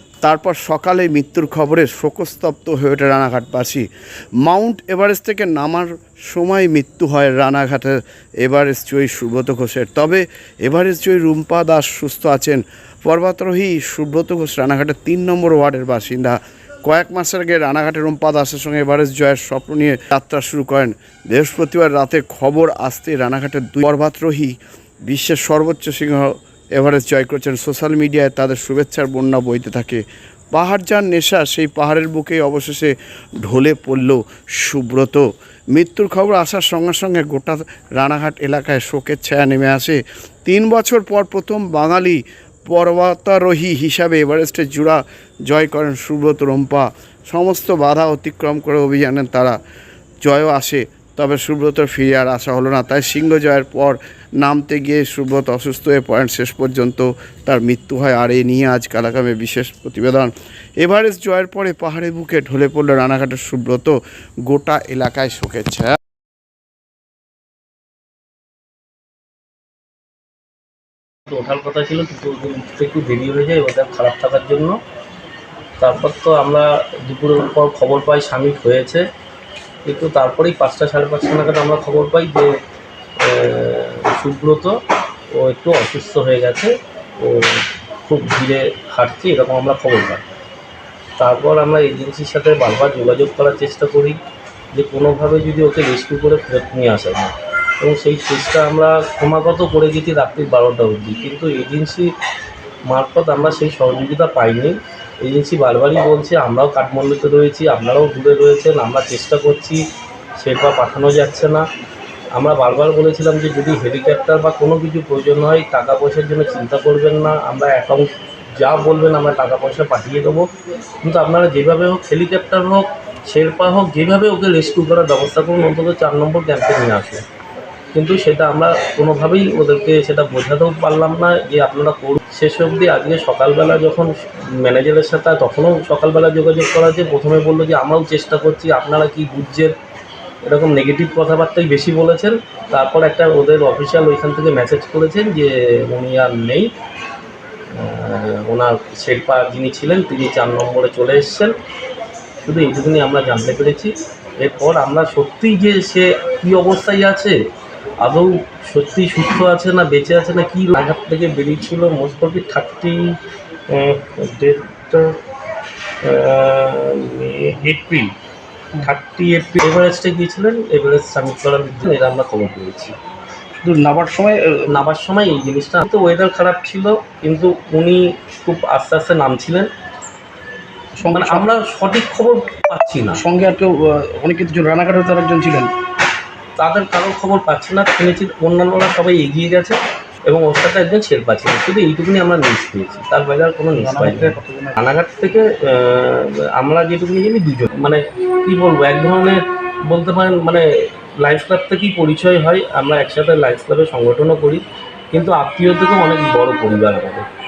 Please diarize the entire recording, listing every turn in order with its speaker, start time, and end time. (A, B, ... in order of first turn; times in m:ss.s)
0:00.2-0:03.8 A
0:04.4-0:24.5 A
0:25.1-0:49.6 A
0:50.2-1:04.0 A
1:04.5-1:06.0 A
1:11.3-1:14.8 B
1:15.8-1:19.0 B
1:19.8-1:22.5 B
1:23.2-1:24.8 B
1:25.3-1:30.2 B
1:31.2-1:34.2 B
1:34.7-1:42.1 B
1:42.9-1:49.8 B
1:50.4-1:51.6 B
1:52.3-2:00.5 B
2:01.0-2:07.2 B
2:07.9-2:19.7 B
2:20.4-2:26.7 B
2:27.7-2:31.5 B
2:32.4-2:37.4 B
2:38.0-2:43.2 B
2:43.7-2:45.2 B
2:46.0-2:48.1 B
2:48.8-2:53.0 B
2:53.6-2:54.8 C
2:54.7-2:59.7 B
3:01.0-3:01.5 C
3:01.1-3:03.2 B
3:03.1-3:05.7 C
3:06.6-3:20.6 B
3:13.8-3:14.8 C
3:21.2-3:27.2 B